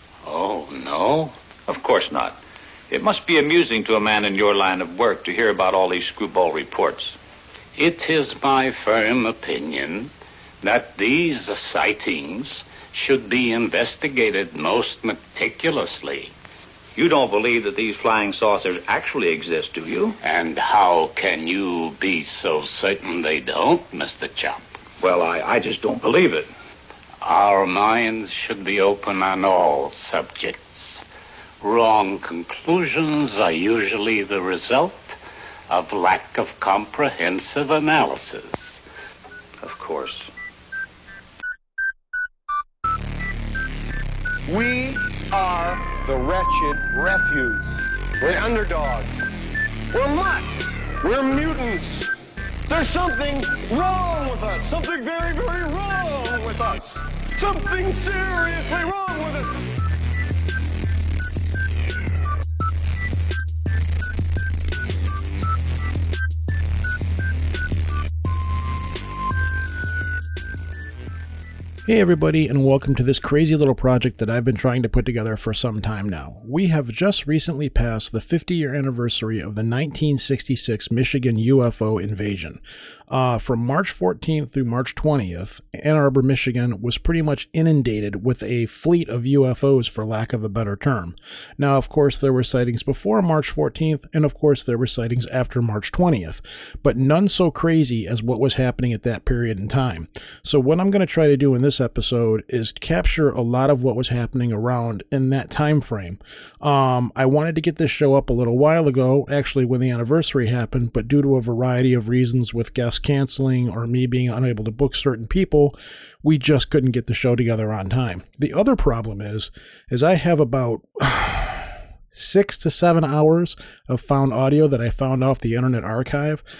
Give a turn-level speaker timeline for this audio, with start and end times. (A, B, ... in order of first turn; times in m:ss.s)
0:00.2-0:01.3 A
0:01.7-0:02.4 B
0:02.9-0:07.2 B
0:07.7-0:16.3 A
0:17.0-0:20.2 B
0:20.2-0:25.6 A
0:25.1-0:26.4 B
0:27.2-0:31.0 A
0:31.6-0:38.8 A
0:39.6-0:40.3 B
0:44.5-0:49.1 C
0:49.9-0:52.1 C
0:52.7-0:59.6 C
1:11.9-1:22.6 D
1:23.1-1:55.7 D
1:56.2-2:01.6 D
2:02.2-2:06.4 D